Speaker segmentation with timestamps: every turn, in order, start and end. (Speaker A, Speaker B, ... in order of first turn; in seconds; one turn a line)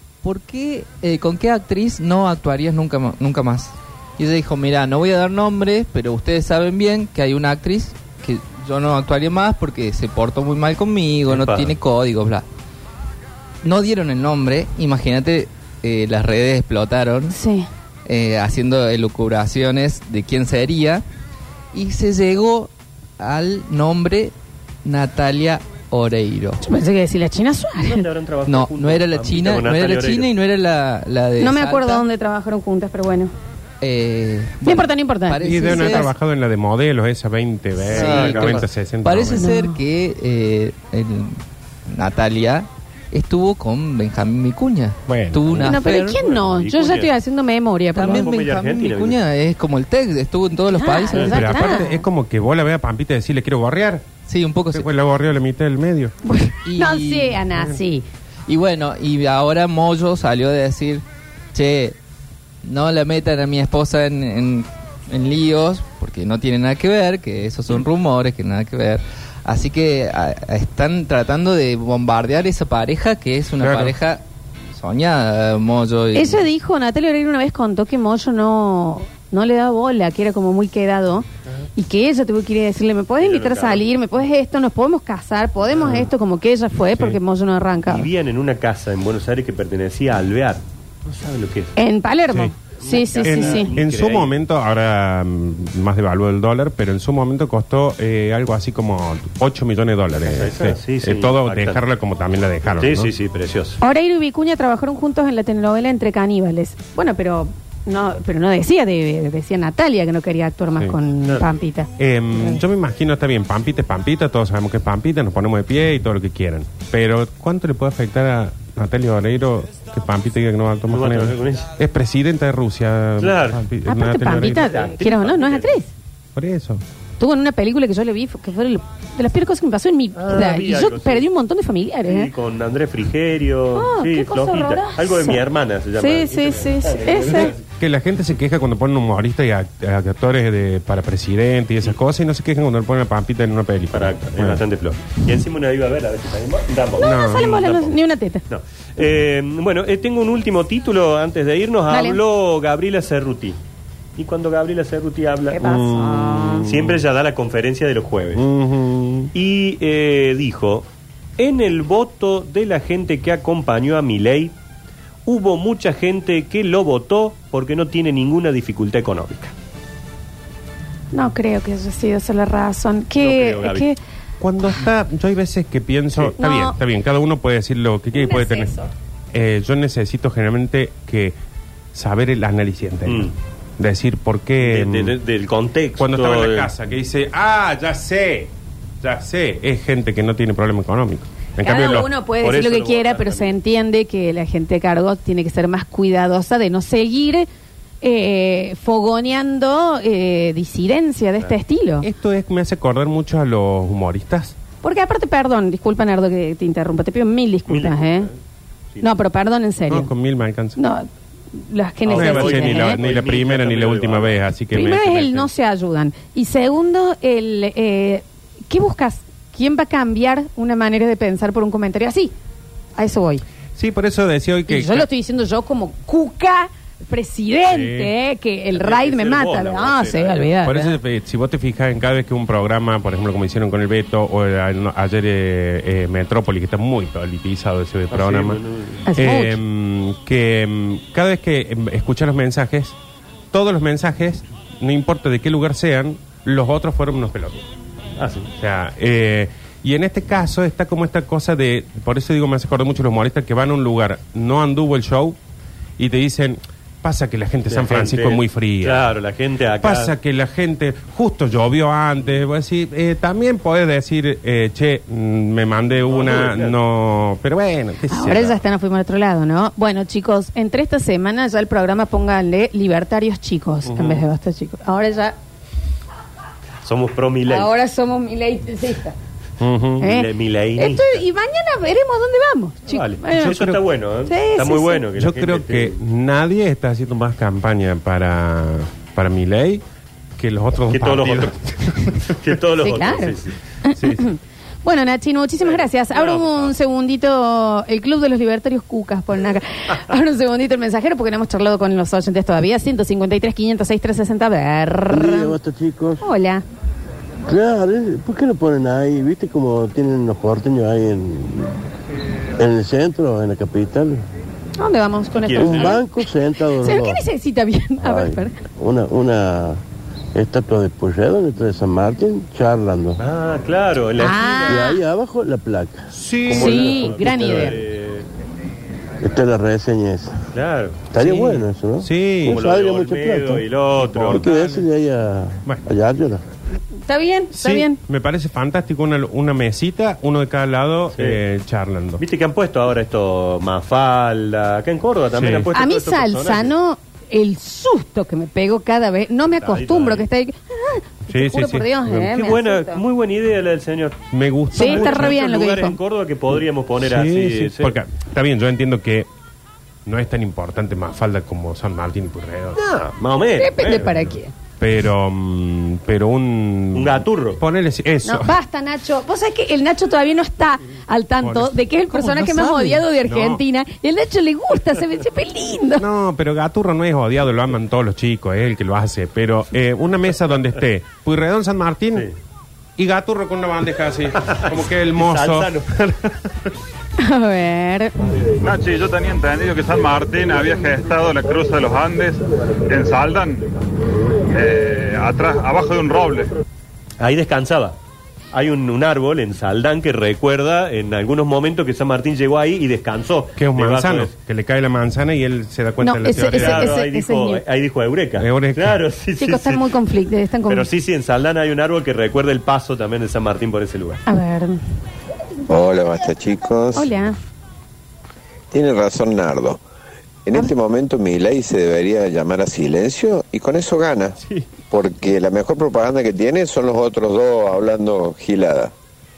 Speaker A: 0.2-12.4
Speaker B: 11.3-11.7
Speaker A: 13.6-17.4
Speaker C: 17.3-17.7
Speaker A: 18.1-21.0
Speaker A: 21.7-24.3
Speaker A: 24.8-26.6
Speaker C: 26.6-28.1
Speaker B: 27.8-30.3
Speaker A: 28.5-32.0
Speaker C: 31.4-33.3
Speaker A: 33.8-36.1
Speaker C: 34.6-36.1
Speaker D: 35.4-39.5
Speaker A: 37.8-46.2
Speaker B: 37.9-38.6
Speaker C: 39.4-39.8
Speaker D: 45.1-45.7
Speaker C: 45.6-48.3
Speaker B: 46.0-47.1
Speaker A: 47.9-51.8
Speaker B: 48.0-49.2
Speaker C: 50.7-52.0
Speaker D: 51.2-54.0
Speaker A: 54.3-54.9
Speaker D: 54.7-56.1
Speaker C: 56.2-58.0
Speaker A: 56.6-57.4
Speaker A: 58.5-62.0
Speaker A: 62.6-74.2
Speaker D: 73.6-73.9
Speaker A: 74.7-76.5
Speaker C: 76.1-88.1
Speaker B: 83.2-83.9
Speaker B: 87.9-91.7
Speaker C: 91.8-93.7
Speaker B: 92.8-94.3
Speaker D: 93.2-103.1
Speaker B: 100.2-101.8
Speaker B: 102.8-103.8
Speaker C: 103.8-112.6
Speaker D: 112.0-124.7
Speaker B: 120.9-121.7
Speaker B: 123.2-123.6
Speaker C: 123.8-125.9
Speaker B: 124.4-125.8
Speaker D: 126.3-126.8
Speaker C: 127.2-132.3
Speaker B: 130.2-131.3
Speaker B: 132.1-137.6
Speaker C: 133.8-135.4
Speaker C: 136.0-137.5
Speaker D: 137.8-144.6
Speaker B: 143.9-148.0
Speaker D: 147.0-147.5
Speaker C: 147.0-148.4
Speaker B: 148.5-153.6
Speaker C: 151.9-152.2
Speaker B: 154.2-155.6
Speaker C: 155.5-156.7
Speaker D: 155.6-157.0
Speaker B: 156.6-158.4
Speaker D: 158.3-159.3
Speaker B: 159.3-160.8
Speaker B: 161.4-164.5
Speaker B: 165.2-169.5
Speaker C: 171.1-174.0
Speaker B: 173.2-173.9
Speaker D: 174.4-178.7
Speaker C: 176.4-176.8
Speaker C: 178.1-178.9
Speaker D: 179.3-181.4
Speaker D: 181.9-185.1
Speaker B: 183.1-183.3
Speaker B: 184.6-186.7
Speaker D: 186.0-188.5
Speaker D: 189.0-192.1
Speaker C: 191.6-197.5
Speaker B: 191.9-193.6
Speaker C: 198.0-202.1
Speaker D: 202.0-204.6
Speaker C: 204.8-208.3
Speaker B: 207.7-208.3
Speaker C: 209.0-210.1
Speaker D: 209.9-210.8
Speaker C: 210.8-213.0
Speaker B: 212.1-214.4
Speaker D: 212.1-215.5
Speaker C: 214.7-222.3
Speaker C: 222.9-223.4
Speaker D: 223.8-225.1
Speaker C: 224.7-231.0
Speaker D: 227.7-228.1
Speaker B: 228.7-230.5
Speaker D: 230.6-238.6
Speaker B: 238.1-239.0
Speaker C: 239.1-239.6
Speaker D: 239.1-242.9
Speaker D: 243.5-247.6
Speaker B: 248.2-248.5
Speaker D: 248.6-255.4
Speaker D: 256.0-259.1
Speaker B: 257.7-260.1
Speaker D: 259.8-268.6
Speaker B: 266.0-266.7
Speaker C: 268.1-275.4
Speaker D: 273.9-274.2
Speaker B: 276.8-277.7
Speaker C: 277.5-279.1
Speaker D: 279.6-280.1
Speaker C: 280.0-283.7
Speaker B: 280.0-281.2
Speaker B: 282.9-285.9
Speaker D: 283.4-283.8
Speaker C: 284.3-285.0
Speaker D: 285.1-289.8
Speaker D: 290.4-292.2
Speaker B: 290.9-291.6
Speaker B: 292.2-293.6
Speaker C: 292.8-305.5
Speaker D: 294.0-294.3
Speaker B: 295.6-296.7
Speaker E: 305.1-306.2
Speaker C: 306.2-306.6
Speaker E: 307.5-311.8
Speaker E: 312.6-314.2
Speaker C: 314.8-316.3
Speaker B: 315.4-316.0
Speaker E: 315.6-317.2
Speaker C: 316.8-318.5
Speaker E: 318.0-319.8
Speaker E: 320.3-323.2
Speaker B: 323.2-324.8
Speaker C: 324.2-325.0
Speaker E: 324.7-327.6
Speaker D: 326.1-326.9
Speaker B: 326.5-328.2
Speaker C: 326.5-327.8
Speaker E: 329.2-330.4
Speaker B: 330.5-331.1
Speaker E: 331.1-333.6
Speaker D: 331.2-332.6
Speaker B: 332.4-334.4
Speaker D: 334.0-334.9
Speaker E: 334.2-336.4
Speaker C: 337.1-338.0
Speaker D: 337.5-342.2
Speaker B: 341.1-341.4
Speaker B: 342.2-346.7
Speaker D: 345.3-345.7
Speaker C: 345.7-353.0
Speaker B: 349.6-350.3
Speaker D: 351.3-352.2
Speaker B: 352.1-354.2
Speaker D: 354.3-355.4
Speaker C: 354.7-356.0
Speaker B: 354.7-358.0
Speaker D: 357.0-359.3
Speaker D: 360.1-362.8
Speaker B: 362.8-364.2
Speaker C: 363.6-364.5
Speaker D: 364.8-368.5
Speaker B: 366.9-367.6
Speaker C: 368.2-376.0
Speaker D: 371.4-373.6
Speaker D: 376.0-382.3
Speaker D: 383.0-386.7
Speaker B: 384.5-385.9
Speaker C: 387.2-388.1
Speaker F: 388.6-393.6
Speaker F: 394.5-396.5
Speaker B: 397.2-397.9
Speaker B: 398.5-404.3
Speaker D: 403.6-407.0
Speaker C: 406.0-407.6
Speaker B: 406.5-409.8
Speaker D: 408.4-409.0
Speaker C: 409.4-410.9
Speaker B: 410.7-414.2
Speaker C: 414.3-414.8
Speaker G: 415.7-417.1
Speaker C: 416.9-417.4
Speaker G: 418.7-419.8
Speaker G: 420.4-424.4
Speaker G: 424.9-428.9